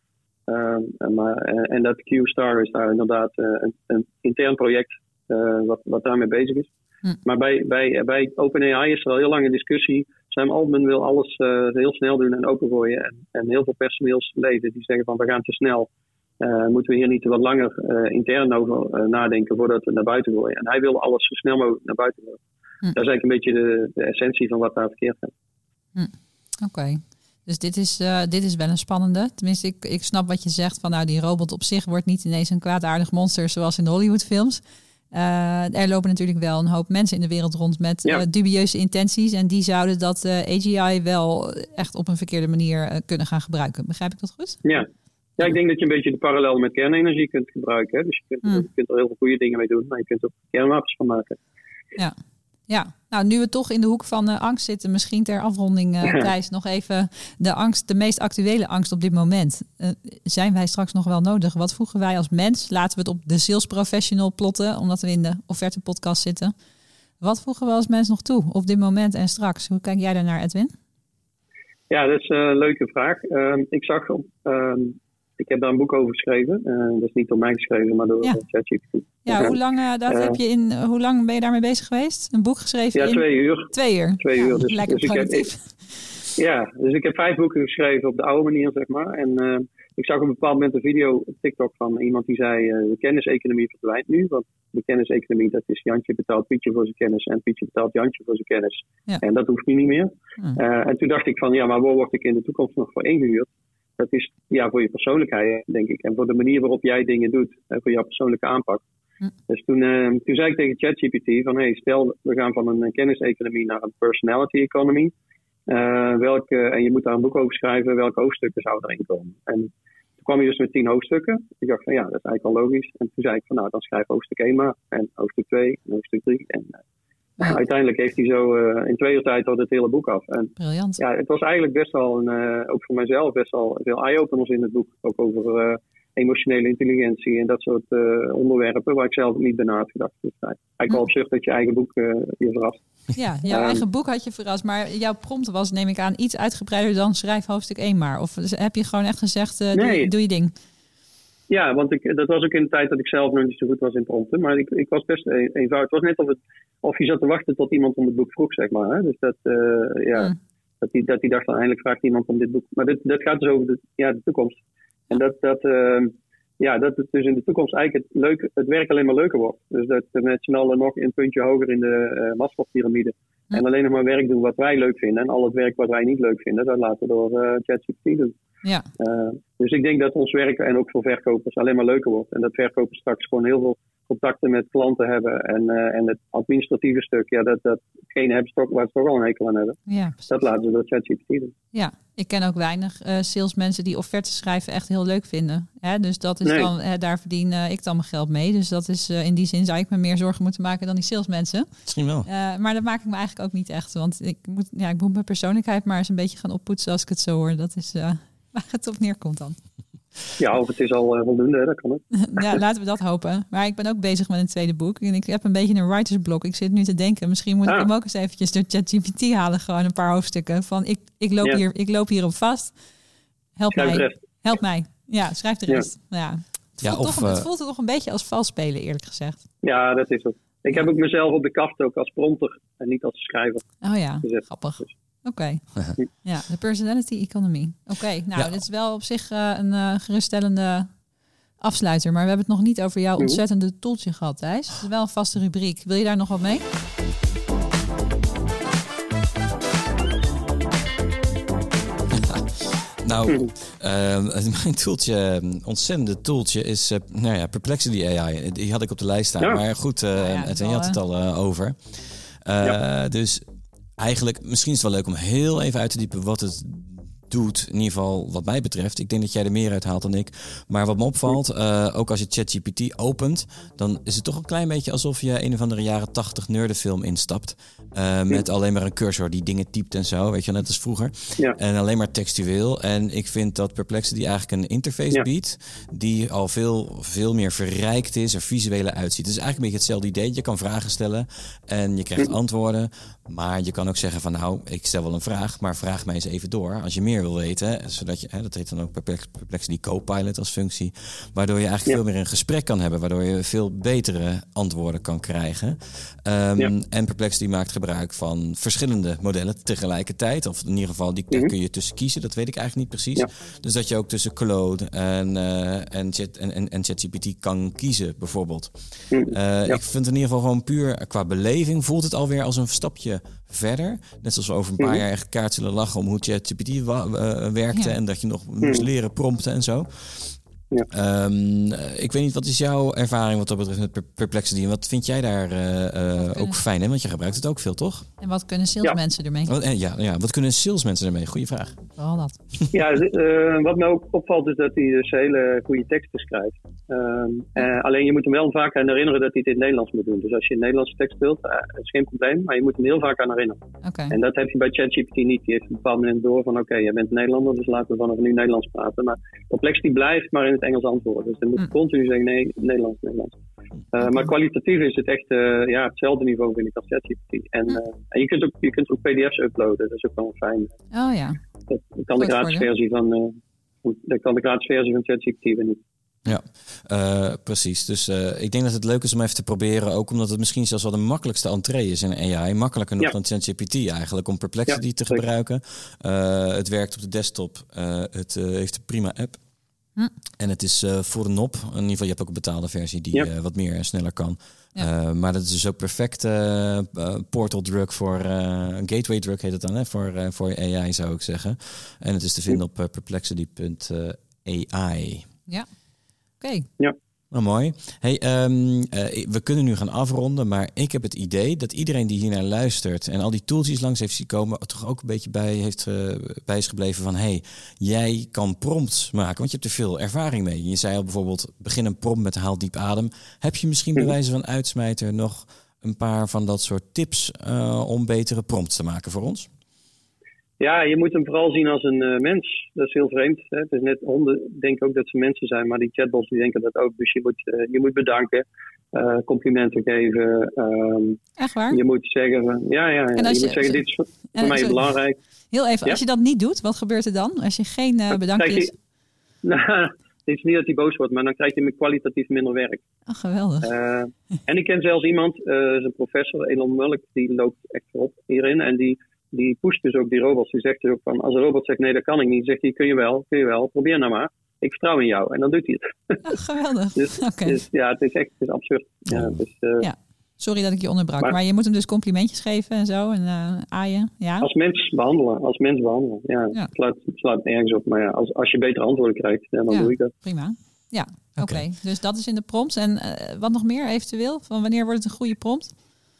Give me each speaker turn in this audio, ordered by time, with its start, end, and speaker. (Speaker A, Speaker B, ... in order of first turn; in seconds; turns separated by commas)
Speaker A: 0.5-6.7, Speaker A: 7.2-15.9, Speaker A: 16.4-22.4, Speaker A: 22.9-25.3, Speaker B: 25.9-44.6, Speaker A: 45.4-51.4, Speaker B: 52.7-66.5, Speaker B: 67.2-70.7, Speaker A: 71.9-80.4, Speaker B: 79.2-86.0, Speaker A: 82.9-85.5, Speaker A: 86.3-108.8, Speaker A: 109.5-115.1, Speaker A: 115.7-126.8, Speaker A: 127.4-142.8, Speaker B: 130.6-131.0, Speaker B: 143.1-150.5, Speaker A: 143.5-143.8, Speaker A: 149.7-150.1, Speaker A: 151.5-164.6, Speaker A: 165.1-178.3, Speaker A: 179.0-191.5, Speaker B: 189.9-190.3, Speaker B: 191.7-201.7, Speaker A: 196.4-196.7, Speaker C: 201.9-202.3, Speaker B: 202.2-209.6, Speaker A: 210.4-212.0, Speaker B: 212.1-222.7, Speaker B: 223.6-229.4, Speaker A: 223.7-224.2, Speaker C: 226.8-227.5, Speaker A: 229.6-234.9, Speaker B: 233.8-235.6, Speaker B: 236.2-240.9, Speaker B: 241.6-246.6, Speaker C: 252.1-263.4, Speaker B: 260.1-261.0, Speaker C: 264.0-338.1, Speaker A: 319.1-319.8, Speaker B: 336.2-336.6, Speaker B: 338.2-339.5, Speaker C: 339.5-341.8, Speaker B: 342.0-342.4, Speaker A: 342.7-363.3, Speaker B: 353.8-354.1, Speaker A: 363.9-370.7, Speaker B: 364.0-364.3, Speaker B: 370.9-371.4, Speaker A: 371.7-375.8, Speaker B: 372.2-372.7, Speaker C: 376.2-389.4, Speaker A: 384.7-385.2, Speaker C: 390.4-405.3, Speaker B: 406.4-406.7, Speaker C: 407.3-429.5, Speaker A: 430.6-445.2, Speaker B: 441.4-441.8, Speaker B: 443.1-443.8, Speaker B: 444.3-444.8, Speaker B: 445.5-448.7, Speaker A: 448.1-448.7, Speaker A: 449.4-452.8, Speaker B: 453.1-453.7, Speaker A: 453.6-466.2, Speaker B: 466.2-467.6, Speaker A: 467.0-469.9, Speaker C: 469.1-469.4, Speaker B: 469.8-474.5, Speaker A: 474.4-480.1, Speaker B: 479.7-485.7, Speaker C: 481.4-481.6